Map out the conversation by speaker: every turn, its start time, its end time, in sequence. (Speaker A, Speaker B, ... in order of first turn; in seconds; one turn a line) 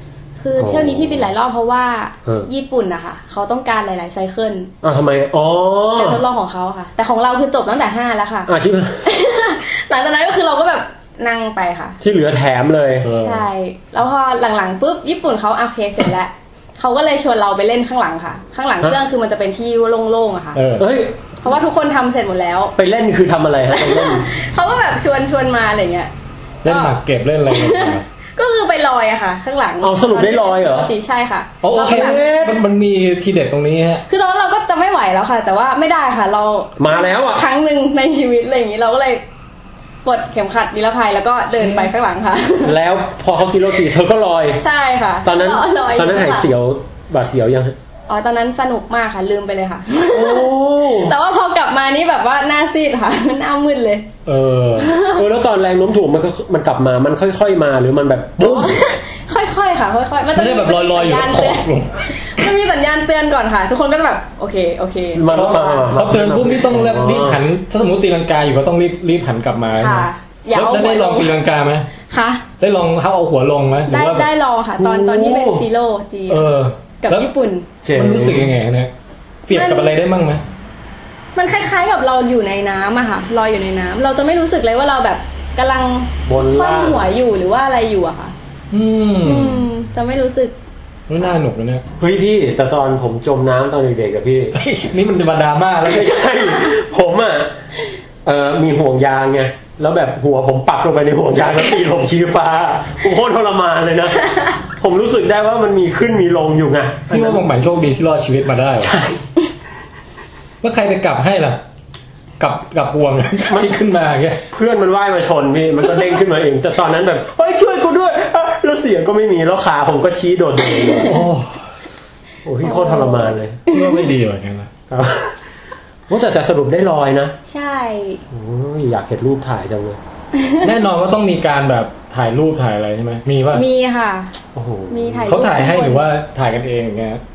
Speaker A: 0.4-4.7
Speaker B: 0.6-1.3
Speaker B: 4.8-6.2
Speaker A: 5.9-8.5
Speaker B: 8.5-9.1
Speaker A: 9.0-12.0
Speaker B: 12.0-13.1
Speaker C: 13.0-13.5
Speaker A: 13.1-20.6
Speaker C: 20.5-20.8
Speaker B: 20.8-21.2
Speaker A: 21.4-22.7
Speaker B: 22.8-24.4
Speaker A: 23.7-26.1
Speaker A: 26.6-27.0
Speaker C: 26.6-28.0
Speaker A: 27.5-32.2
Speaker B: 29.8-30.9
Speaker C: 31.6-34.0
Speaker B: 31.7-32.6
Speaker A: 34.1-39.2
Speaker B: 36.8-37.5
Speaker A: 40.0-42.8
Speaker B: 42.6-44.6
Speaker A: 44.6-46.5
Speaker B: 45.2-47.8
Speaker A: 48.1-54.1
Speaker C: 50.1-51.1
Speaker B: 50.2-51.1
Speaker C: 54.2-54.9
Speaker A: 54.8-55.2
Speaker B: 55.1-58.9
Speaker A: 58.4-65.8
Speaker C: 60.3-62.2
Speaker B: 65.1-67.4
Speaker C: 65.3-71.9
Speaker A: 69.7-71.4
Speaker A: 72.0-72.4
Speaker C: 72.6-74.3
Speaker A: 73.9-76.5
Speaker B: 74.8-75.7
Speaker C: 76.3-77.3
Speaker A: 77.0-77.7
Speaker B: 77.8-78.5
Speaker C: 77.9-78.9
Speaker C: 79.5-80.4
Speaker A: 79.5-80.0
Speaker A: 81.3-88.3
Speaker B: 86.2-87.1
Speaker C: 88.7-89.7
Speaker A: 89.2-90.5
Speaker C: 91.1-91.8
Speaker B: 92.0-94.5
Speaker C: 94.5-96.2
Speaker B: 95.8-97.6
Speaker B: 98.2-107.5
Speaker C: 107.1-108.9
Speaker B: 108.8-109.2
Speaker C: 110.6-111.6
Speaker C: 112.4-114.4
Speaker B: 113.5-113.8
Speaker B: 114.5-121.2
Speaker C: 121.0-121.6
Speaker B: 122.4-123.6
Speaker A: 122.6-124.1
Speaker C: 123.7-124.7
Speaker B: 124.9-125.4
Speaker B: 126.1-127.3
Speaker A: 127.5-128.2
Speaker B: 128.3-130.0
Speaker C: 130.6-133.6
Speaker A: 133.5-134.3
Speaker B: 134.5-135.3
Speaker A: 134.9-136.1
Speaker C: 135.2-137.2